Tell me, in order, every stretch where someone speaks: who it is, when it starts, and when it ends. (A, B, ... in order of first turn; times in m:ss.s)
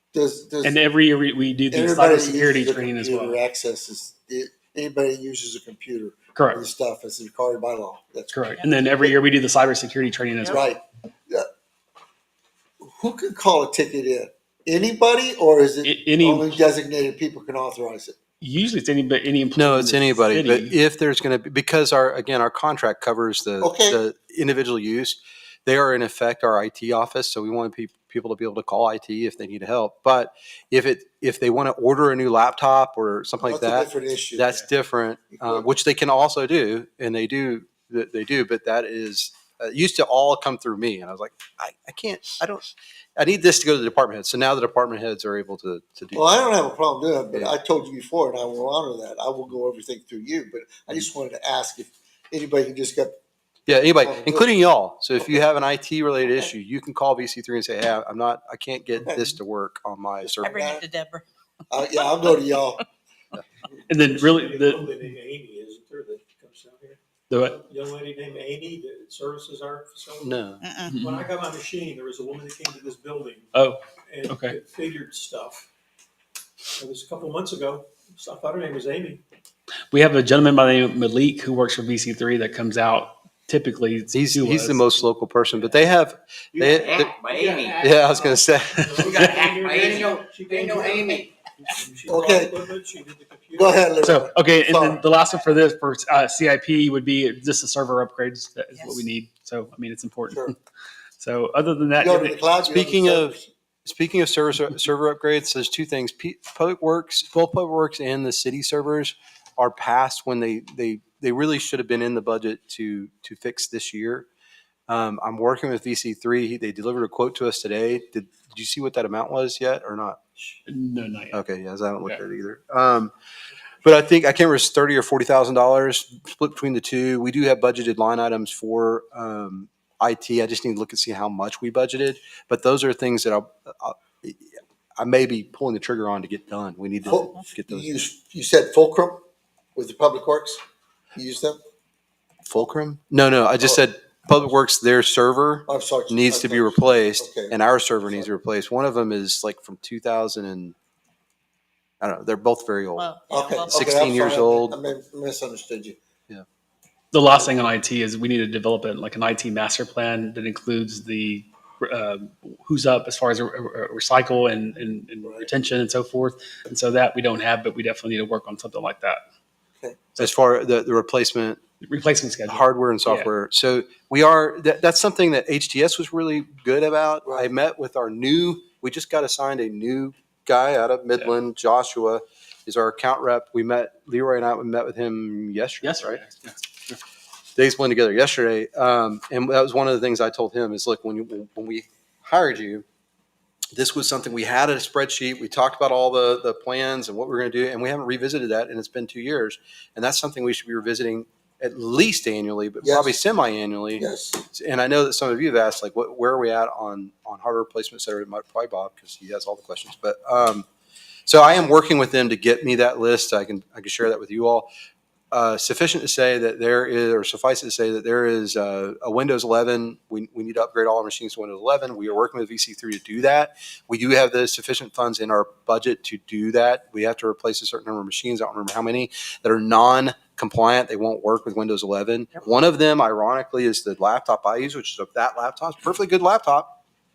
0:00.1-0:00.8 A
0:00.6-0:03.4 B
0:01.7-0:09.2 A
0:06.4-0:06.6 B
0:08.3-0:10.6 B
0:10.5-0:11.4 A
0:12.8-0:18.2 A
0:15.8-0:16.5 B
0:18.4-0:20.8 B
0:19.6-0:46.4 C
0:23.6-0:24.0 A
0:33.4-0:34.5 A
0:35.3-0:35.7 A
0:46.1-0:53.2 A
0:53.7-1:00.6 C
0:54.0-0:54.5 A
0:59.0-0:59.3 A
1:00.4-1:00.8 A
1:00.4-1:01.2 D
1:01.7-1:02.8 A
1:03.9-1:04.9 B
1:03.9-1:13.5 E
1:07.3-1:07.6 B
1:10.2-1:10.6 C
1:10.6-1:10.9 D
1:10.9-1:11.2 B
1:13.5-1:14.6 B
1:14.1-1:15.6 E
1:16.8-1:19.2 E
1:19.9-1:24.9 B
1:24.1-1:27.1 C
1:26.6-1:28.0 F
1:27.4-1:33.9 E
1:27.7-1:29.0 C
1:28.7-1:29.5 B
1:29.0-1:31.3 F
1:32.1-1:32.6 A
1:33.6-1:35.0 A
1:34.0-1:40.5 B
1:38.8-1:39.0 D
1:41.2-1:42.4 B
1:42.0-1:43.4 A
1:42.6-1:54.3 C
1:54.9-2:00.2 C
2:00.7-2:01.4 B
2:01.3-2:03.1 C
2:03.8-2:14.5 C
2:15.0-2:17.9 C
2:17.1-2:19.2 A
2:19.8-2:20.6 A
2:21.2-2:21.6 A
2:22.5-2:30.8 C
2:25.7-2:27.6 A
2:32.0-2:33.1 C
2:33.0-2:34.0 D
2:33.3-2:36.0 A
2:33.7-2:34.8 C
2:37.1-2:49.2 B
2:45.2-2:45.5 A
2:50.2-2:51.6 C
2:51.8-2:53.3 B
2:52.5-3:06.2 C
3:05.8-3:06.6 B
3:07.6-3:12.8 C
3:13.8-3:30.7 C
3:22.8-3:23.2 A
3:24.0-3:24.5 A
3:31.3-3:34.7 C
3:35.3-3:56.8 C